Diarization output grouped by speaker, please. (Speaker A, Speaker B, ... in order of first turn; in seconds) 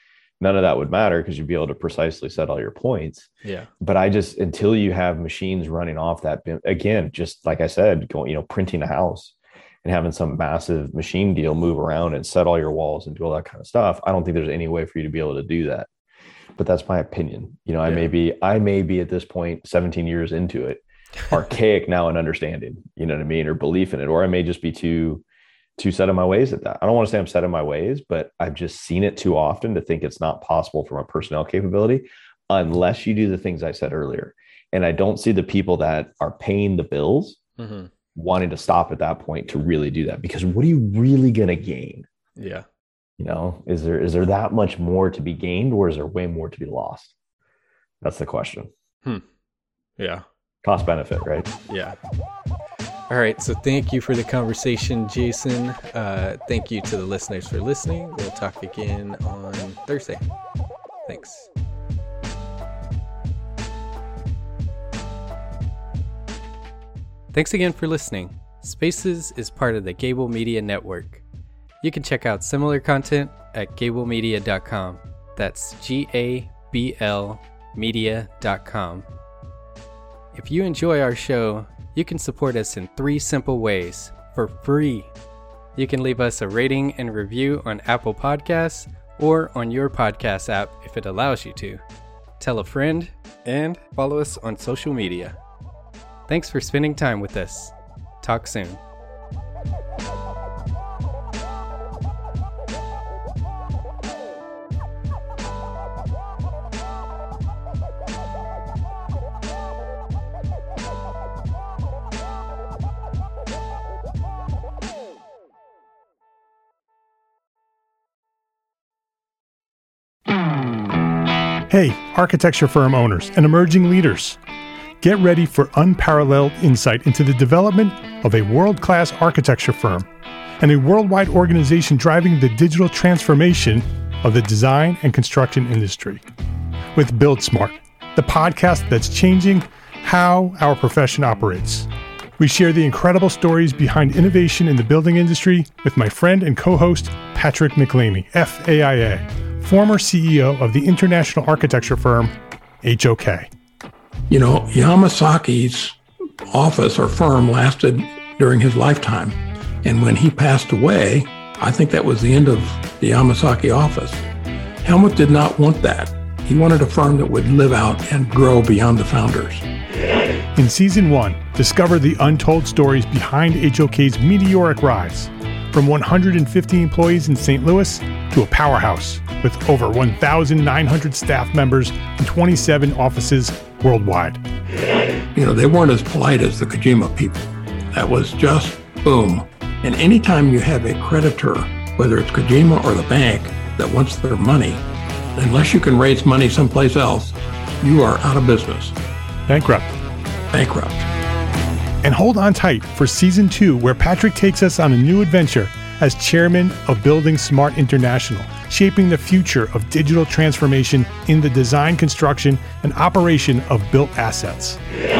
Speaker A: 0.4-3.3, 3.8-15.9, 16.6-25.2, 25.8-37.4, 38.1-42.1, 43.2-47.1, 48.0-48.7, 50.6-51.5
Speaker B: 3.4-3.7, 17.8-18.1, 37.6-37.9, 42.4-42.6, 50.0-50.2, 51.7-52.0, 53.1-60.2, 61.1-61.5, 67.3-71.2, 71.8-79.1, 80.3-85.1, 85.7-91.8, 92.4-95.4, 96.3-98.8
Speaker C: 121.7-124.4, 125.0-130.1, 130.6-136.2, 136.9-141.9, 142.4-153.5, 170.6-184.4, 199.5-199.9, 202.0-214.8
Speaker D: 154.3-156.0, 156.5-164.2, 164.8-169.7, 185.3-194.8, 195.3-198.9, 200.5-201.1